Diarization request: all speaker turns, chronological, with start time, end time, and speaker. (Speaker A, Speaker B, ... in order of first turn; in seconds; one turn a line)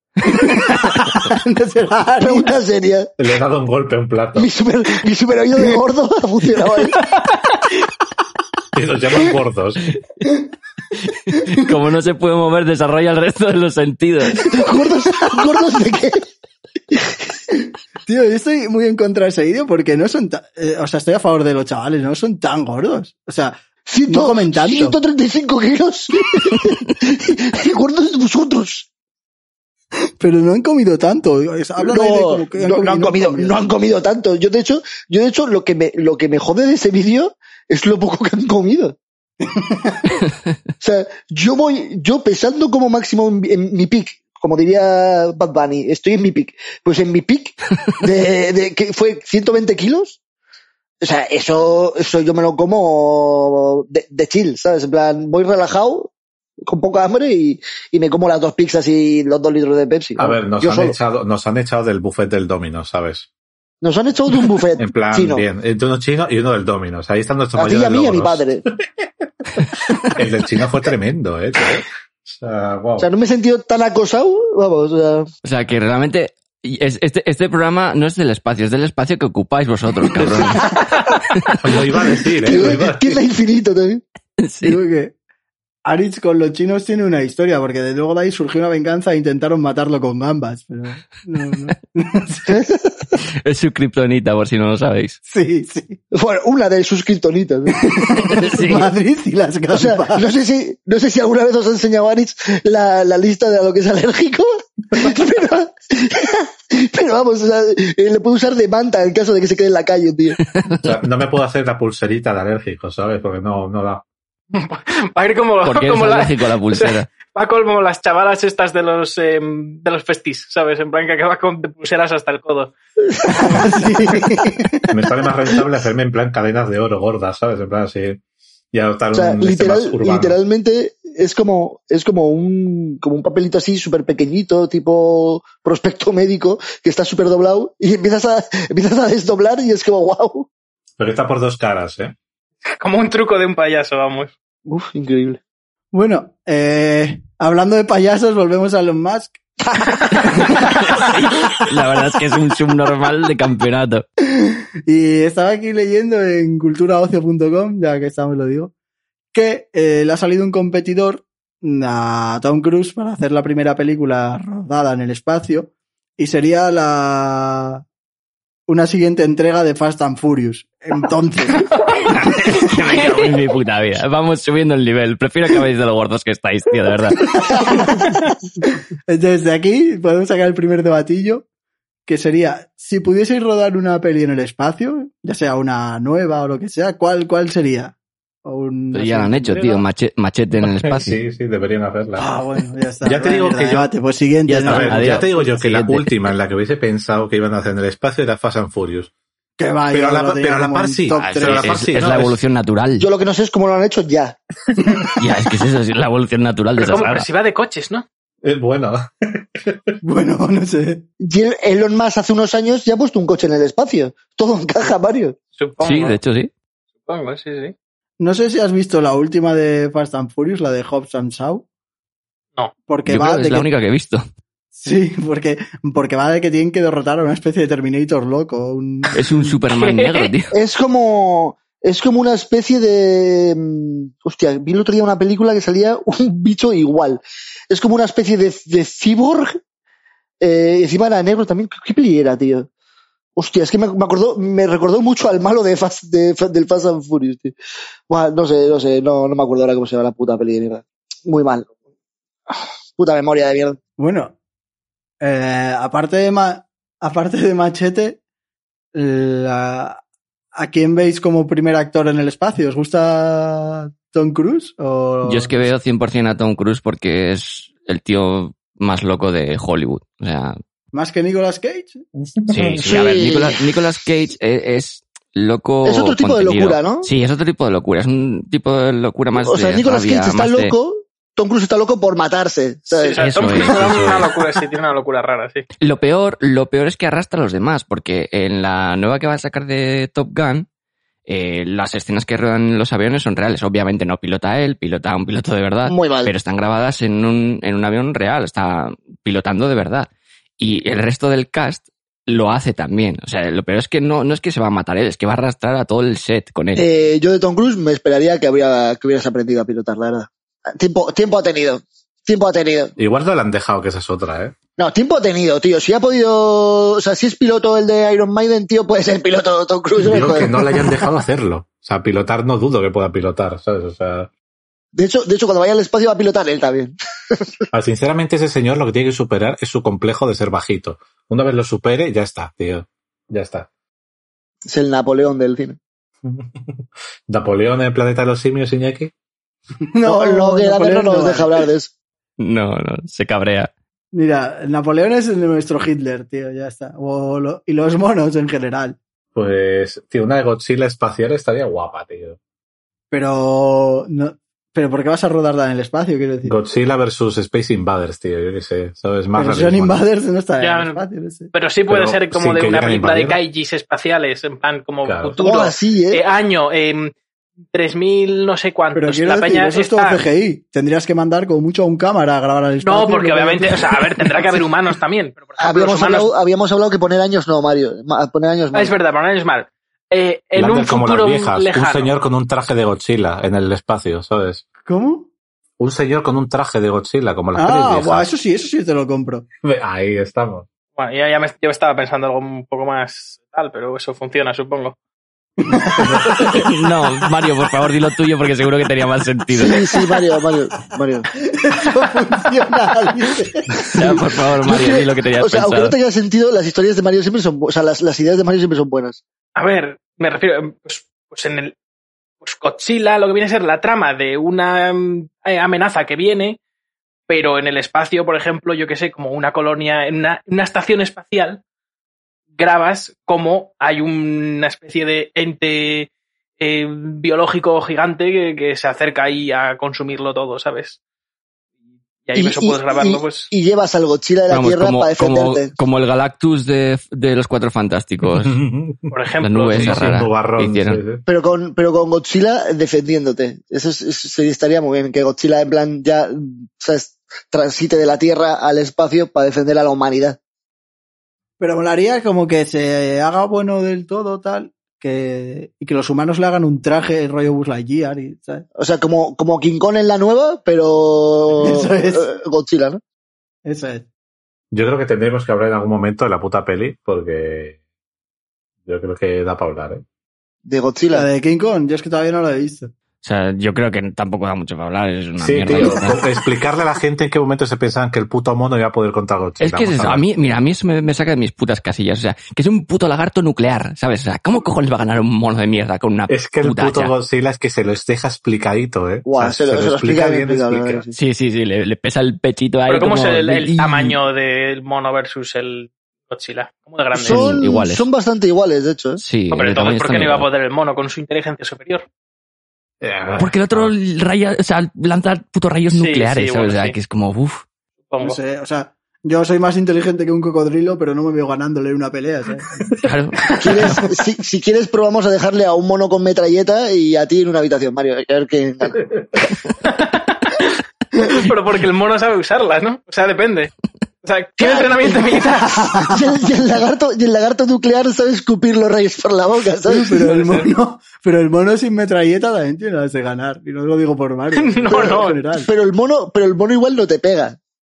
Speaker A: 0.2-2.6
Speaker B: 2.2-3.1
Speaker C: 3.2-4.5
Speaker B: 4.4-7.0
Speaker C: 8.7-9.8
Speaker D: 11.1-14.5
Speaker B: 14.4-16.2
Speaker A: 18.1-25.0
Speaker B: 23.9-28.9
Speaker A: 30.2-33.6
Speaker B: 31.8-39.0
Speaker A: 39.5-40.1
Speaker B: 40.8-50.2
Speaker B: 51.0-56.1
Speaker B: 56.6-61.0
Speaker C: 60.2-63.3
Speaker B: 63.8-65.5
Speaker C: 64.8-68.5
Speaker B: 67.6-68.6
Speaker C: 69.6-73.1
Speaker B: 73.0-75.3
Speaker D: 75.4-81.8
Speaker C: 80.2-80.6
Speaker C: 81.6-83.2
Speaker B: 82.4-84.0
Speaker D: 84.4-84.8
Speaker A: 84.6-85.1
Speaker A: 85.9-92.6
Speaker B: 92.5-92.9
Speaker D: 93.4-95.2
Speaker A: 95.3-96.0
Speaker B: 96.1-98.2
Speaker A: 97.9-100.2
Speaker D: 98.3-98.9
Speaker B: 99.7-110.4
Speaker D: 110.6-110.9
Speaker C: 110.8-114.0
Speaker E: 114.5-122.7
Speaker D: 115.6-117.1
Speaker B: 123.1-123.7
Speaker A: 123.3-124.9
Speaker C: 124.9-128.2
Speaker C: 128.7-130.4
Speaker B: 129.1-140.5
Speaker C: 141.0-142.1
Speaker E: 142.7-144.3
Speaker B: 144.7-145.4
Speaker A: 145.9-149.4
Speaker A: 150.1-150.6
Speaker D: 150.4-154.1
Speaker A: 154.3-158.7
Speaker A: 159.3-167.8
Speaker A: 168.7-171.7
Speaker D: 172.1-177.4
Speaker E: 172.9-173.4
Speaker A: 177.4-178.2
Speaker B: 177.5-177.8
Speaker A: 179.1-181.4
Speaker A: 182.1-189.8
Speaker D: 188.9-191.2
Speaker C: 190.6-192.3
Speaker A: 192.2-195.3
Speaker C: 193.0-193.9
Speaker D: 194.5-196.2
Speaker C: 194.6-199.1
Speaker A: 199.6-201.8
Speaker C: 199.9-202.4
Speaker D: 201.1-203.1
Speaker B: 203.0-204.4
Speaker D: 205.2-207.3
Speaker E: 206.8-208.1
Speaker C: 208.4-209.8
Speaker A: 210.0-211.1
Speaker B: 211.2-215.4
Speaker E: 215.6-216.2
Speaker D: 215.8-216.5
Speaker E: 217.1-217.7
Speaker A: 218.2-221.6
Speaker A: 222.9-223.7
Speaker D: 223.1-224.2
Speaker A: 224.8-229.6
Speaker D: 229.1-230.6
Speaker E: 229.7-230.3
Speaker B: 230.5-239.6
Speaker B: 240.4-242.7
Speaker B: 243.4-247.5
Speaker B: 248.1-251.7
Speaker B: 252.5-253.8
Speaker A: 254.0-254.3
Speaker A: 255.2-258.2
Speaker A: 258.9-260.0
Speaker A: 260.5-265.7
Speaker D: 265.2-270.6
Speaker A: 270.9-272.0
Speaker C: 272.2-272.8
Speaker D: 272.5-280.7
Speaker B: 272.8-273.6
Speaker B: 275.8-277.1
Speaker B: 279.4-283.7
Speaker E: 282.9-285.7
Speaker D: 283.2-284.3
Speaker D: 285.8-290.7
Speaker D: 291.3-306.9
Speaker B: 295.9-296.3
Speaker B: 306.8-312.9
Speaker C: 313.0-314.6
Speaker B: 314.8-320.6
Speaker C: 320.0-324.3
Speaker B: 324.9-327.6
Speaker C: 327.7-333.7
Speaker B: 334.7-335.8
Speaker C: 336.2-339.1
Speaker A: 339.9-341.6
Speaker B: 340.0-341.9
Speaker D: 342.4-343.7
Speaker A: 344.1-349.0
Speaker C: 349.3-352.4
Speaker A: 353.1-356.6
Speaker C: 356.4-360.0
Speaker A: 359.3-361.5
Speaker E: 360.6-367.1
Speaker C: 361.9-363.4
Speaker C: 365.0-365.4
Speaker B: 365.4-366.2
Speaker E: 367.7-370.2
Speaker A: 368.9-374.7
Speaker E: 372.8-376.3
Speaker B: 375.6-378.9
Speaker E: 378.7-382.1
Speaker C: 380.6-384.6
Speaker A: 384.9-385.3
Speaker C: 385.8-388.3
Speaker A: 387.5-389.4
Speaker C: 389.6-390.7
Speaker E: 391.0-395.0
Speaker A: 395.6-396.7
Speaker C: 396.0-396.6
Speaker D: 396.5-399.8
Speaker B: 399.5-401.3
Speaker A: 401.5-403.7
Speaker D: 403.9-405.9
Speaker B: 404.6-409.2
Speaker E: 409.6-411.7
Speaker E: 412.4-416.6
Speaker E: 417.3-421.6
Speaker E: 422.6-431.0
Speaker E: 432.2-433.5
Speaker B: 432.4-435.7
Speaker D: 434.5-438.6
Speaker C: 438.2-439.1
Speaker E: 439.1-440.1
Speaker D: 439.4-441.0
Speaker C: 439.7-441.2
Speaker B: 441.3-450.4
Speaker A: 451.6-458.6
Speaker B: 458.8-463.0
Speaker A: 461.6-462.3
Speaker A: 463.6-464.1
Speaker C: 464.7-467.8
Speaker C: 468.9-470.0
Speaker B: 470.6-471.3
Speaker A: 471.1-472.9
Speaker D: 473.2-476.2
Speaker C: 475.4-480.3
Speaker D: 479.6-487.1
Speaker C: 486.3-491.1
Speaker B: 489.2-491.1
Speaker D: 491.1-494.2
Speaker E: 492.9-497.5
Speaker D: 497.1-498.0
Speaker B: 497.2-499.2
Speaker D: 499.2-500.5
Speaker E: 499.5-502.1
Speaker C: 503.0-503.9
Speaker D: 503.4-507.6
Speaker E: 505.9-507.0
Speaker E: 508.1-508.4
Speaker A: 508.2-512.8
Speaker D: 513.0-514.1
Speaker B: 513.6-519.0
Speaker C: 519.0-519.3
Speaker E: 519.8-523.7
Speaker E: 524.2-526.0
Speaker B: 524.6-525.5
Speaker B: 526.0-530.3
Speaker A: 529.9-535.7
Speaker E: 530.3-530.7
Speaker E: 534.5-535.4
Speaker B: 534.9-537.6